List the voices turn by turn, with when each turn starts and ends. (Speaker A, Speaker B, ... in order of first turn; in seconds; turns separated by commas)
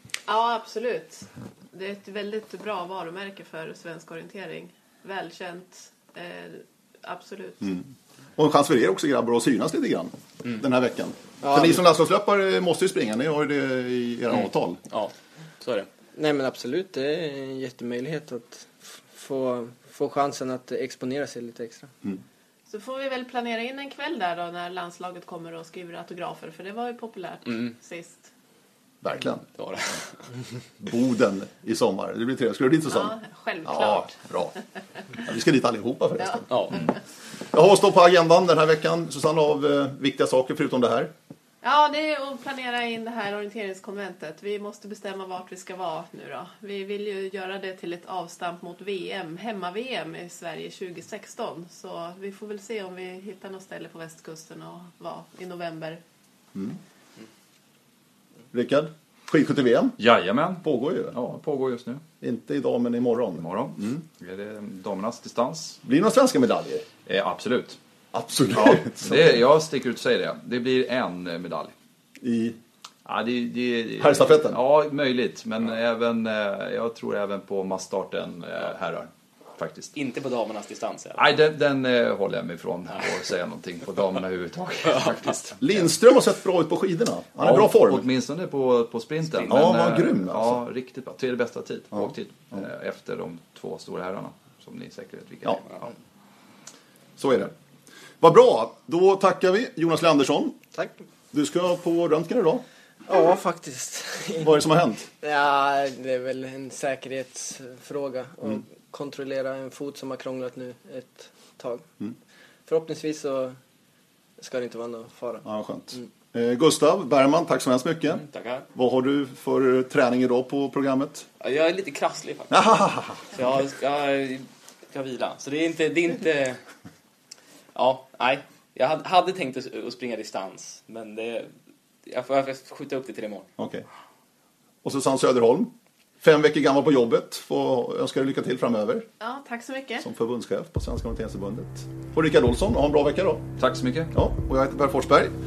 Speaker A: 0.3-7.8, Speaker B: 8.4-14.8, Speaker C: 11.4-11.8, Speaker D: 14.3-15.9, Speaker C: 16.2-21.9, Speaker A: 22.7-28.3, Speaker B: 29.0-29.4, Speaker D: 29.6-30.2, Speaker B: 30.8-34.6, Speaker A: 32.9-34.2, Speaker B: 35.2-36.8, Speaker D: 36.5-36.9, Speaker B: 37.5-41.1, Speaker A: 41.6-56.0, Speaker B: 58.5-60.0, Speaker E: 60.0-62.0, Speaker B: 60.6-61.2, Speaker B: 62.2-64.0, Speaker E: 63.4-65.8, Speaker B: 65.8-66.9, Speaker E: 67.1-67.8, Speaker B: 68.1-69.3, Speaker E: 68.5-71.7, Speaker B: 72.2-72.6, Speaker E: 73.0-79.9, Speaker B: 74.0-74.6, Speaker D: 80.0-81.2, Speaker E: 81.2-85.8, Speaker B: 85.6-88.0, Speaker E: 87.4-95.9, Speaker D: 89.3-89.8, Speaker B: 89.5-90.6, Speaker B: 97.2-97.5, Speaker B: 98.2-100.6, Speaker B: 101.3-102.6, Speaker C: 103.1-104.6, Speaker B: 104.4-105.1, Speaker C: 105.2-111.9, Speaker C: 112.7-113.6, Speaker C: 114.4-116.1, Speaker B: 115.5-121.3, Speaker D: 118.2-118.7, Speaker D: 121.4-126.6, Speaker B: 122.5-123.2, Speaker D: 127.8-131.5, Speaker D: 132.1-133.5, Speaker B: 133.6-133.8, Speaker B: 134.8-139.1, Speaker A: 139.2-140.1, Speaker B: 140.0-143.5, Speaker E: 143.6-144.1, Speaker B: 144.1-145.3